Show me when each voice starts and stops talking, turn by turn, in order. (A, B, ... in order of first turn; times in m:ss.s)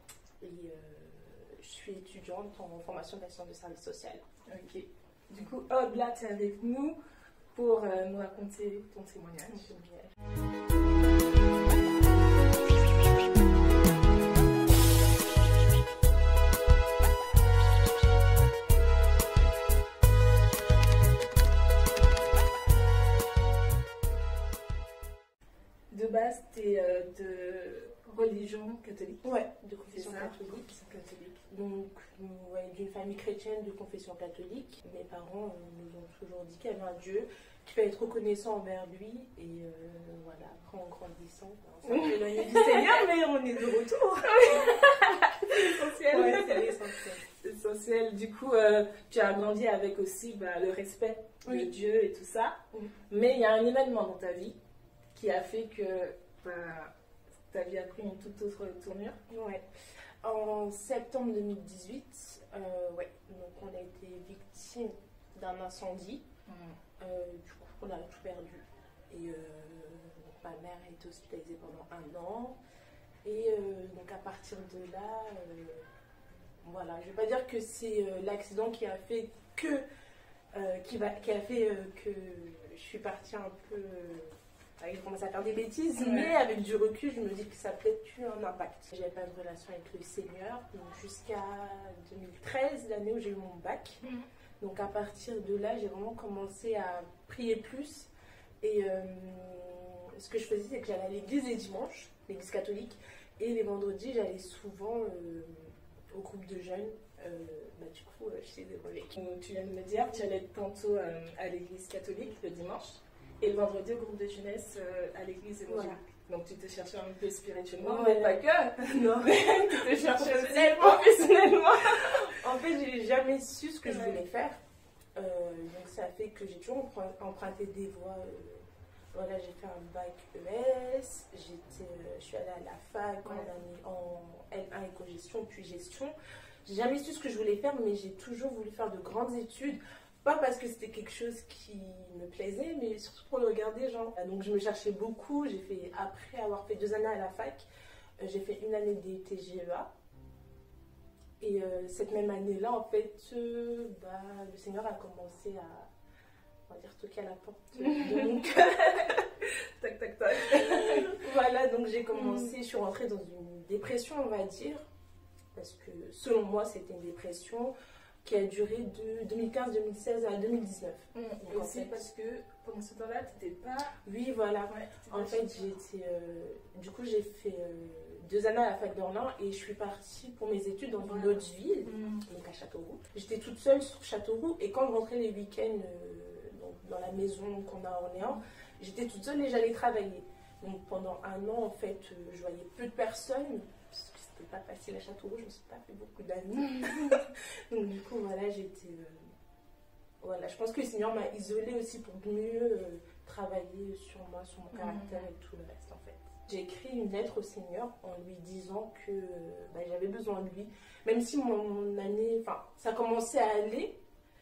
0:00.4-0:04.2 A
0:04.5-0:07.0 B
0:07.6-0:09.7 B
0:09.5-0:10.1 A
0:25.9-0:29.3 B
0:29.2-0:30.7 A
0:29.9-0:31.4 B
0:31.4-0:44.9 A
0:41.8-0:43.0 B
0:44.3-0:52.6 B
0:45.5-0:47.2 A
0:51.4-0:51.7 A
0:53.1-0:54.6 B
0:55.2-0:56.9 B
0:57.5-0:59.2 B
0:59.3-0:59.6 A
1:00.2-1:06.2 A
1:06.5-1:06.8 B
1:07.0-1:12.6 A
1:13.2-1:15.9 A
1:16.6-1:19.8 A
1:20.5-1:34.0 A
1:26.0-1:26.3 B
1:34.6-1:38.1 A
1:38.6-1:49.2 A
1:49.2-2:02.3 B
1:55.7-1:56.0 A
1:57.8-1:58.4 A
1:59.0-2:04.6 A
2:03.8-2:04.2 B
2:05.2-2:27.7 A
2:13.2-2:13.5 B
2:28.2-2:29.9 A
2:31.4-2:35.9 A
2:36.7-2:39.2 A
2:37.8-2:41.2 B
2:40.5-2:44.9 A
2:42.1-2:42.6 B
2:45.6-2:52.0 A
2:51.2-2:54.0 B
2:54.0-3:19.3 A
2:54.7-2:55.5 B
3:01.0-3:02.2 B
3:20.2-3:34.0 A
3:24.7-3:25.3 B